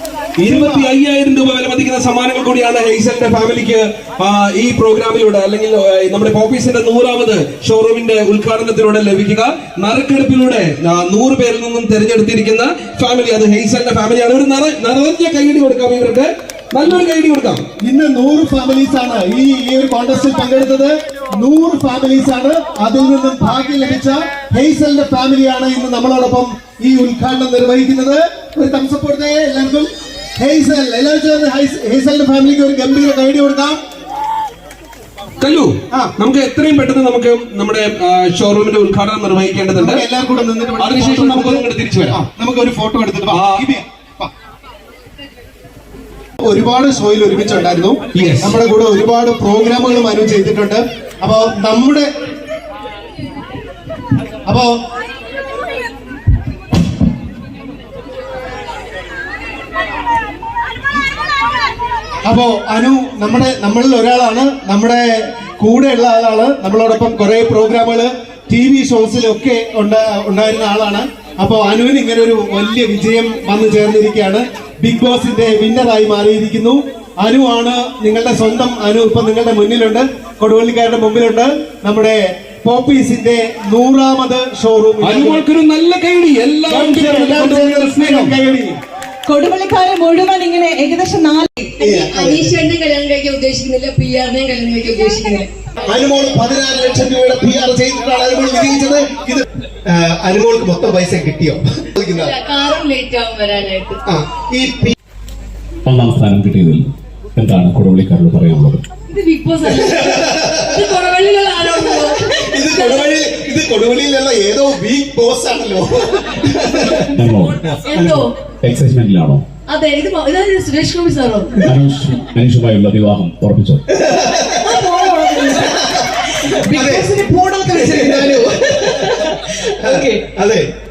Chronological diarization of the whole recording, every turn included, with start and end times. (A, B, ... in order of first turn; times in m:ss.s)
0:00.4-0:17.6 A
0:00.4-0:00.9 B
0:17.8-0:29.9 B
0:30.4-0:33.8 B
0:35.4-0:40.0 A
0:39.8-0:44.3 B
0:40.8-0:42.2 A
0:43.3-0:43.6 A
0:46.4-0:52.1 B
0:48.1-0:48.6 A
0:54.4-0:54.7 B
1:02.2-1:25.4 B
1:25.0-1:28.4 A
1:26.7-1:28.8 B
1:29.3-1:31.8 C
1:31.8-1:32.5 B
1:31.8-1:35.5 D
1:35.8-1:42.3 B
1:42.1-1:44.0 D
1:44.1-1:44.9 B
1:45.9-1:48.8 E
1:49.1-1:53.1 D
1:49.6-1:50.7 B
1:51.7-1:57.1 B
1:57.1-1:57.6 E
1:57.7-1:58.2 B
1:57.8-1:58.3 D
1:58.6-1:59.4 E
1:59.7-2:01.6 D
2:01.6-2:03.8 E
2:03.9-2:04.7 B
2:04.6-2:09.3 C
2:05.5-2:06.1 B
2:06.7-2:07.1 B
2:07.7-2:08.9 B
2:07.9-2:10.1 A
2:09.8-2:10.7 B